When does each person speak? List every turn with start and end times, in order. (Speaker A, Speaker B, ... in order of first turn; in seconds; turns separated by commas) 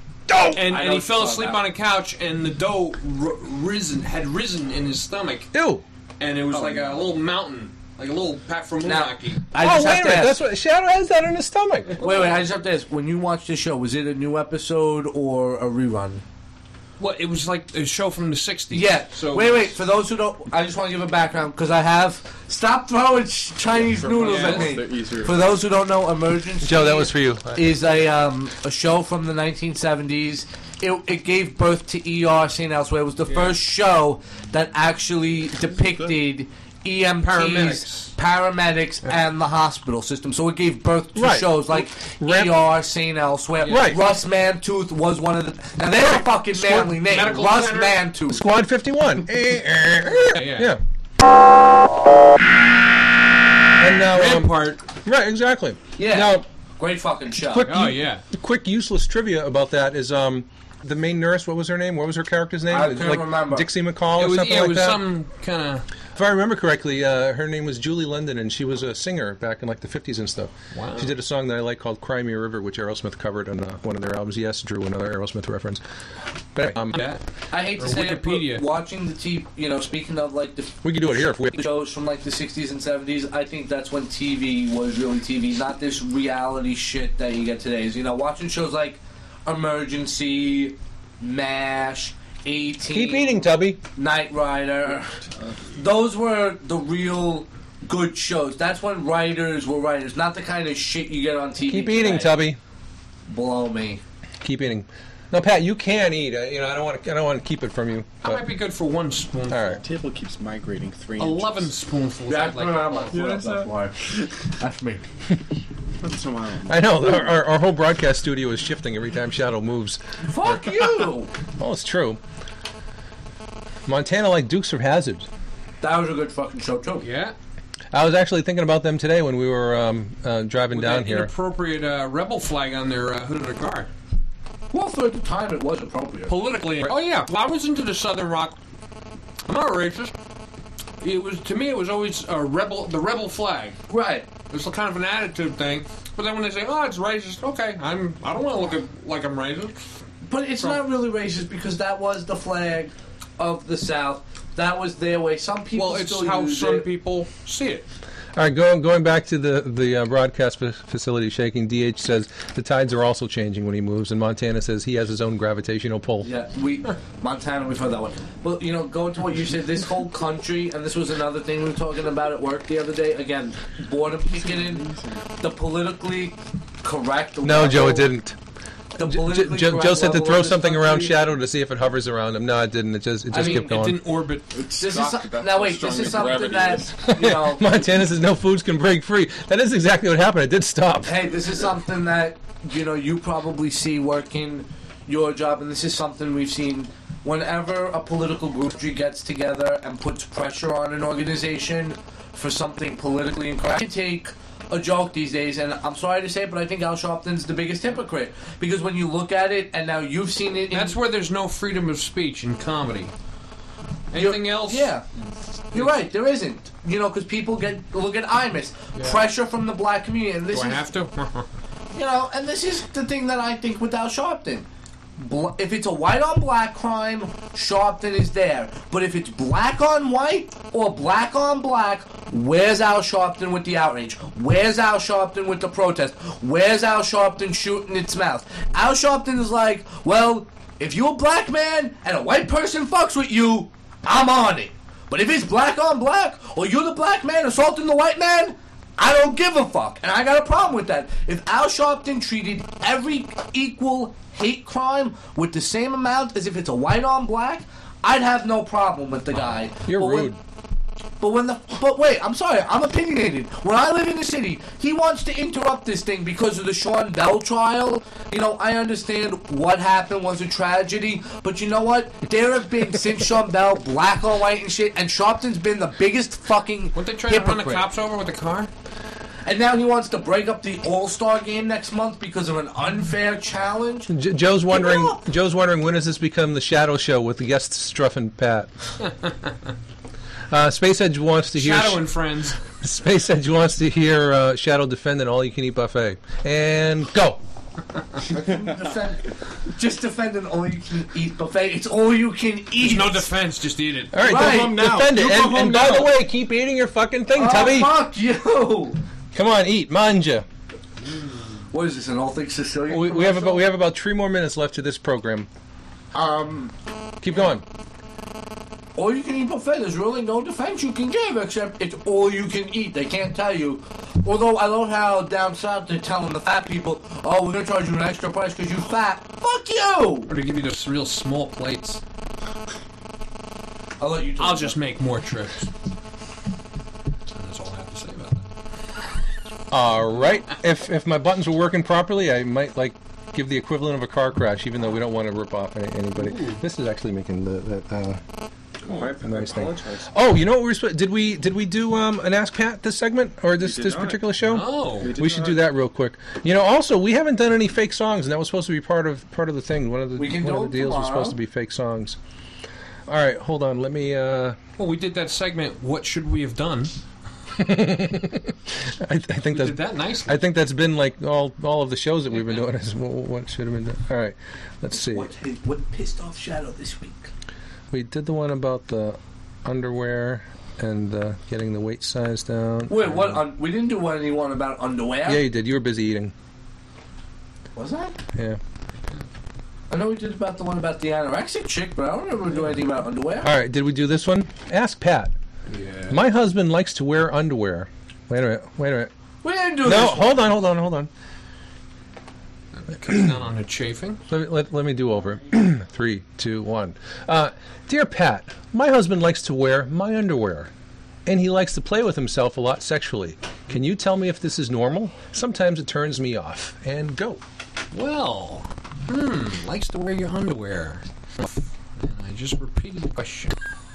Speaker A: 0.3-0.7, Speaker B: 0.5-5.5, Speaker C: 0.6-1.6, Speaker A: 5.5-5.8, Speaker B: 6.2-9.4, Speaker C: 6.5-6.8, Speaker C: 8.8-10.4, Speaker A: 9.6-12.0, Speaker C: 12.0-16.2, Speaker B: 17.0-19.8, Speaker C: 18.7-48.4, Speaker D: 23.7-25.6, Speaker B: 24.2-24.8, Speaker A: 26.6-27.6, Speaker B: 33.3-33.6, Speaker D: 35.9-36.1, Speaker B: 37.2-38.1, Speaker A: 41.1-42.6, Speaker A: 43.7-44.0, Speaker B: 46.6-48.0, Speaker A: 48.3-50.8, Speaker B: 50.3-50.7, Speaker A: 53.8-56.5, Speaker B: 54.1-54.8, Speaker C: 56.0-57.7, Speaker A: 57.4-65.0, Speaker B: 57.6-58.2, Speaker C: 62.7-63.7, Speaker B: 64.1-65.8, Speaker A: 66.1-75.8, Speaker B: 70.7-71.1, Speaker A: 76.5-77.0, Speaker B: 76.9-77.2, Speaker C: 77.5-95.2, Speaker B: 77.8-78.6, Speaker A: 80.8-81.7, Speaker A: 92.9-93.8, Speaker C: 95.8-102.4, Speaker A: 101.7-102.6, Speaker C: 103.3-104.0, Speaker A: 104.4-108.4, Speaker B: 108.2-109.8, Speaker A: 109.5-109.8, Speaker D: 109.8-111.7, Speaker B: 111.2-113.2, Speaker C: 112.3-115.0, Speaker D: 113.1-113.7, Speaker D: 116.0-117.2, Speaker A: 116.7-120.9, Speaker C: 120.3-121.3, Speaker A: 121.6-122.2, Speaker A: 123.9-125.3, Speaker C: 125.8-127.1, Speaker B: 127.0-127.3, Speaker A: 127.9-131.3, Speaker B: 130.7-133.9, Speaker C: 134.7-136.3, Speaker B: 136.3-138.6, Speaker B: 139.4-140.1, Speaker B: 141.0-143.8, Speaker C: 143.9-144.3, Speaker B: 144.5-149.8, Speaker C: 150.2-156.8, Speaker B: 155.7-157.9, Speaker A: 158.3-166.3, Speaker C: 166.2-174.9, Speaker D: 174.3-175.3, Speaker C: 175.4-178.1, Speaker A: 177.4-178.4, Speaker C: 178.9-181.2, Speaker A: 179.0-184.0, Speaker C: 183.3-183.8, Speaker B: 183.3-184.5, Speaker D: 184.5-187.0, Speaker C: 184.8-187.7, Speaker A: 187.2-191.2, Speaker C: 191.0-211.0, Speaker B: 210.7-213.1, Speaker B: 214.1-214.9, Speaker C: 214.1-215.0, Speaker C: 215.7-220.8, Speaker B: 218.9-219.2, Speaker B: 220.5-221.5, Speaker C: 221.9-260.3, Speaker A: 259.9-260.4, Speaker C: 261.2-277.9, Speaker B: 276.9-278.7, Speaker C: 279.4-284.1, Speaker A: 284.1-288.7, Speaker C: 284.7-285.1, Speaker A: 290.5-292.0, Speaker B: 291.5-292.6, Speaker A: 292.7-297.4, Speaker C: 298.3-303.3, Speaker B: 302.8-304.1, Speaker A: 304.1-308.0, Speaker C: 304.2-304.8, Speaker D: 304.2-306.1, Speaker C: 307.3-309.0, Speaker A: 309.3-310.4, Speaker B: 311.1-311.4, Speaker C: 311.7-313.6, Speaker A: 312.9-315.5, Speaker C: 316.1-316.7, Speaker A: 317.2-317.6, Speaker C: 318.9-330.3, Speaker B: 330.3-332.0, Speaker C: 334.0-334.8, Speaker B: 334.4-335.7, Speaker B: 337.3-338.4, Speaker A: 339.7-348.2, Speaker B: 346.1-346.6, Speaker D: 348.9-350.1, Speaker A: 348.9-362.2, Speaker D: 353.6-355.6, Speaker B: 354.4-355.1, Speaker C: 360.2-361.4, Speaker A: 363.1-364.6, Speaker B: 364.8-366.9, Speaker A: 367.5-375.3, Speaker B: 369.5-370.4, Speaker B: 372.3-372.6, Speaker C: 374.9-377.3, Speaker A: 377.9-383.4, Speaker C: 382.9-385.4, Speaker A: 385.2-386.3, Speaker C: 387.7-388.1, Speaker A: 388.3-388.6, Speaker C: 389.9-393.5, Speaker A: 393.4-395.3, Speaker B: 395.7-396.1, Speaker A: 396.1-399.1, Speaker C: 399.4-400.4, Speaker A: 399.8-401.1, Speaker B: 402.8-404.2, Speaker A: 404.3-410.7, Speaker A: 411.2-417.4, Speaker B: 417.9-423.5